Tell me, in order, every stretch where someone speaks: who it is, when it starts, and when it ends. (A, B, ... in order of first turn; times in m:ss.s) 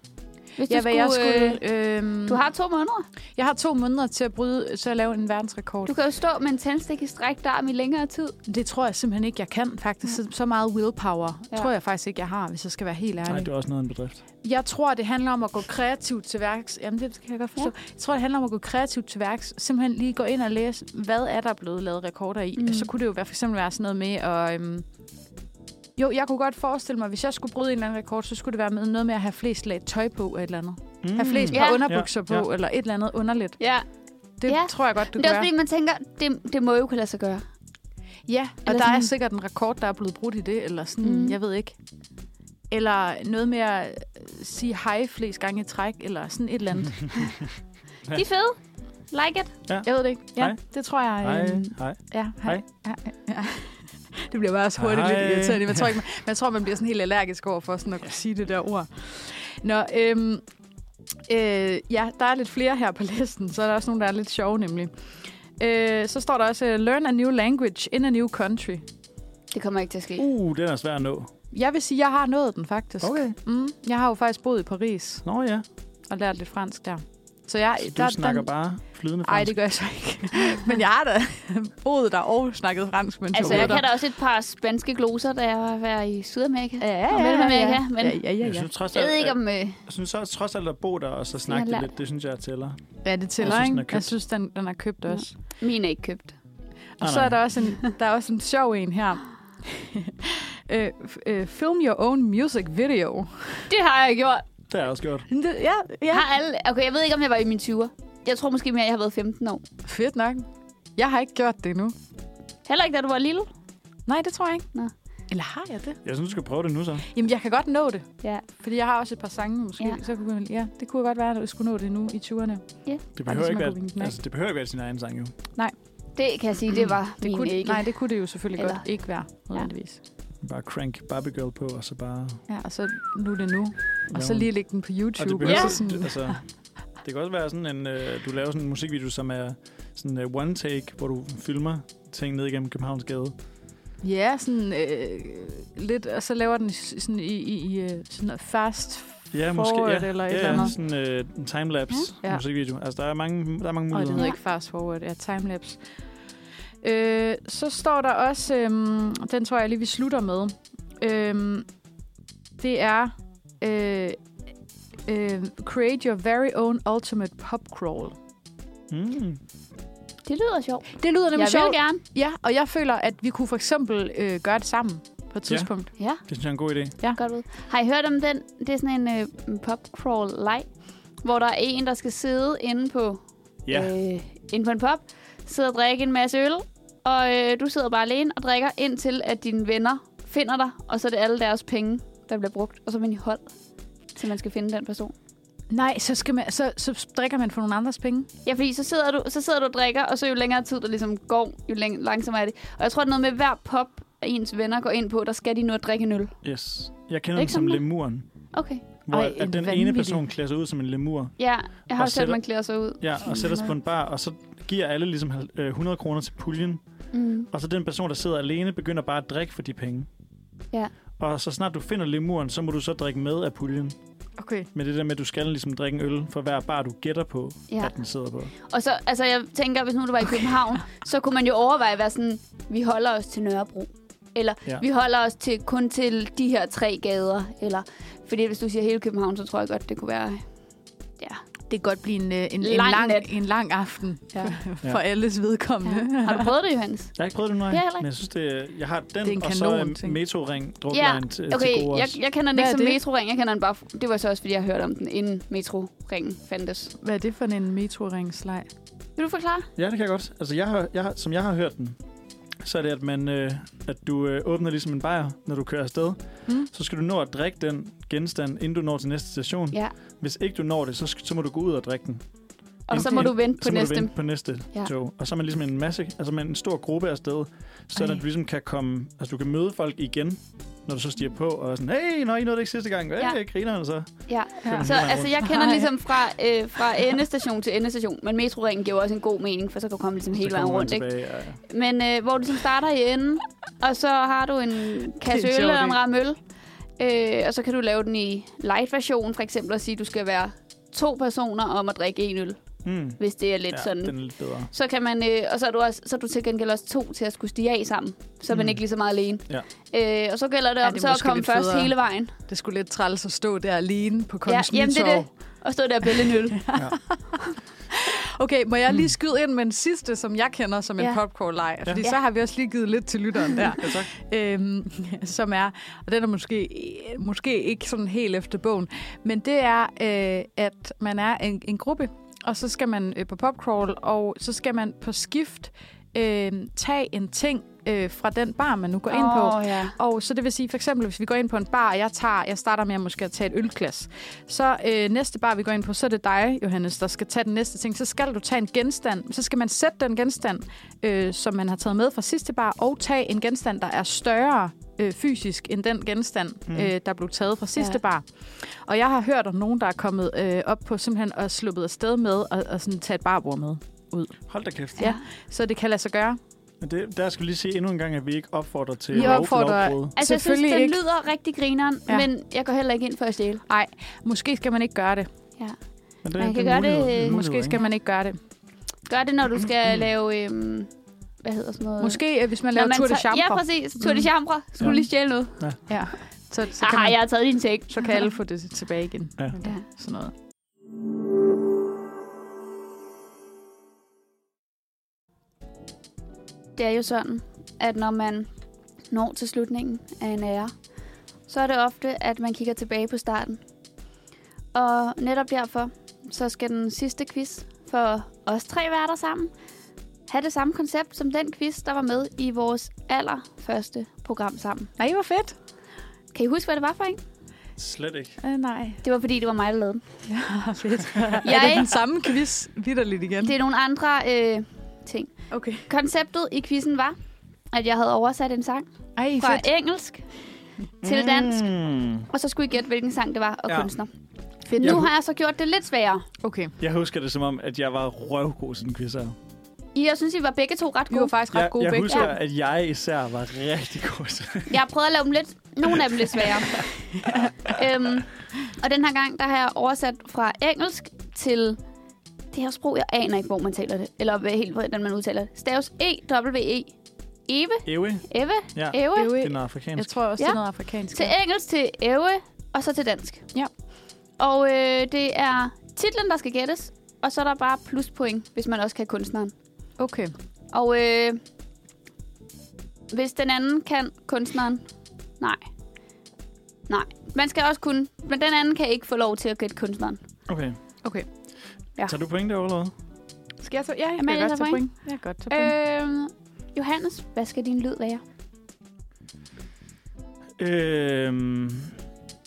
0:00.6-0:01.6 A
0:00.7-0:02.4 B
0:02.2-0:03.0 A
0:03.4-0:05.9 B
0:05.8-0:08.3 A
0:08.4-0:13.5 B
0:13.3-0:14.2 C
0:14.4-0:24.8 B
0:22.6-0:22.9 A
0:26.0-0:33.6 B
0:31.0-0:32.5 C
0:31.5-0:31.8 A
0:33.6-0:33.8 A
0:34.4-0:35.5 B
0:34.4-0:37.4 A
0:38.3-0:41.7 B
0:38.6-0:39.1 A
0:41.0-0:41.4 A
0:42.7-0:47.1 B
0:48.1-0:48.6 A
0:49.1-0:49.5 A
0:49.7-0:50.6 C
0:49.8-1:00.4 B
0:51.2-0:52.6 C
0:54.8-0:56.0 C
1:01.3-1:04.9 B
1:05.6-1:08.8 B
1:09.5-1:10.2 A
1:10.2-1:11.3 C
1:11.5-1:15.2 B
1:13.0-1:13.4 C
1:15.2-1:15.6 C
1:16.1-1:18.5 B
1:17.8-1:19.6 C
1:19.2-1:23.8 B
1:23.3-1:28.2 A
1:23.4-1:23.8 C
1:26.8-1:28.7 B
1:28.4-1:34.1 C
1:28.9-1:29.8 A
1:31.5-1:31.9 A
1:33.0-1:35.3 B
1:35.1-1:36.4 A
1:37.0-1:43.7 B
1:37.0-1:37.4 C
1:43.7-1:44.4 A
1:44.7-1:45.3 C
1:45.3-1:46.3 B
1:46.1-1:49.6 A
1:49.8-1:51.9 B
1:52.6-1:53.5 A
1:54.1-1:54.7 B
1:55.3-1:56.0 B
1:56.0-1:57.0 C
1:57.1-2:04.1 B
2:03.2-2:05.3 C
2:06.1-2:09.7 A
2:07.2-2:10.0 B
2:10.4-2:12.4 C
2:12.5-2:16.4 B
2:14.1-2:14.5 C
2:15.2-2:23.3 C
2:15.4-2:15.8 A
2:24.0-2:30.7 B
2:29.3-2:34.3 C
2:33.9-2:35.8 B
2:36.8-2:41.6 B
2:42.6-2:44.2 B
2:45.1-2:48.1 B
2:48.9-2:49.4 C
2:50.2-2:52.0 A
2:51.0-2:55.9 B
2:56.2-2:56.9 C
2:57.1-3:00.7 A
3:01.2-3:13.5 A
3:03.6-3:03.9 C
3:14.1-3:15.1 A
3:15.7-3:18.3 B
3:18.4-3:26.4 A
3:26.4-3:28.2 C
3:27.3-3:27.8 A
3:28.5-3:28.8 A
3:29.0-3:36.8 C
3:29.1-3:30.2 B
3:31.4-3:33.7 A
3:37.1-3:37.5 A
3:37.5-3:40.1 C
3:41.2-3:44.0 C
3:44.4-3:44.7 B
3:44.7-3:48.5 C
3:48.6-4:00.4 A
4:01.7-4:06.5 B
4:02.6-4:03.3 A
4:05.8-4:07.2 A
4:07.2-4:12.2 C
4:07.7-4:08.0 A
4:09.2-4:10.2 B
4:10.9-4:16.9 A
4:12.5-4:13.0 B
4:17.0-4:18.7 B
4:19.2-4:19.7 A
4:19.8-4:22.0 C
4:22.6-4:32.2 C
4:32.9-4:34.9 A
4:32.9-4:45.4 C
4:44.3-4:51.1 A
4:44.6-4:45.9 B
4:50.3-4:51.6 C
4:51.6-4:56.4 A
4:55.2-4:56.0 B
4:57.0-5:02.6 A
5:02.8-5:04.7 C
5:03.2-5:12.3 A
5:08.5-5:08.8 C
5:10.8-5:15.3 B
5:14.4-5:16.6 A
5:16.2-5:17.2 B
5:17.9-6:04.4 B
5:23.8-5:24.1 C
5:39.1-5:40.0 A
5:56.7-5:56.9 C
6:04.5-6:05.1 C
6:05.0-6:06.4 B
6:06.8-6:10.1 C
6:09.1-6:11.0 B
6:10.2-6:13.6 A
6:13.7-6:15.3 B
6:16.2-6:17.8 C
6:16.3-6:17.4 A
6:17.1-6:18.4 B
6:19.1-6:20.9 A
6:21.4-6:22.2 A
6:22.0-6:24.3 B
6:22.7-6:25.6 A
6:25.9-6:27.2 B
6:26.8-6:28.3 A
6:27.9-6:30.3 B
6:36.8-6:38.5 A
6:39.1-6:40.7 A
6:41.5-6:43.6 A
6:44.7-6:49.5 A
6:50.3-6:54.9 A
6:55.0-6:55.5 B
6:56.3-6:57.2 A
6:57.8-6:58.4 C
6:58.4-6:59.0 B
6:59.0-7:00.0 A
7:00.3-7:03.5 B
7:01.4-7:01.9 A
7:03.4-7:05.3 A
7:05.5-7:05.9 B
7:05.9-7:07.2 A
7:07.7-7:10.3 A
7:09.2-7:09.7 B
7:11.0-7:11.6 A
7:11.0-7:12.3 C
7:12.3-7:14.1 A
7:13.7-7:13.9 C
7:14.7-7:15.1 B
7:14.7-7:16.2 A
7:14.8-7:15.1 C
7:16.4-7:16.7 B
7:16.8-7:19.4 C
7:19.9-7:21.3 A
7:21.1-7:22.3 B
7:21.5-7:24.8 C
7:24.7-7:26.9 A
7:27.6-7:31.8 A
7:32.5-7:36.9 A
7:37.5-7:39.3 A
7:37.8-7:40.1 C
7:39.1-7:41.3 B
7:41.1-7:43.4 A
7:44.4-7:49.5 A
7:50.0-7:50.3 B
7:50.7-7:51.4 A
7:53.1-7:54.8 A
7:56.9-8:00.2 A
8:00.5-8:00.8 C
8:02.0-8:02.9 C
8:03.6-8:05.7 B
8:04.2-8:04.9 A
8:05.5-8:08.2 A
8:10.6-8:12.0 C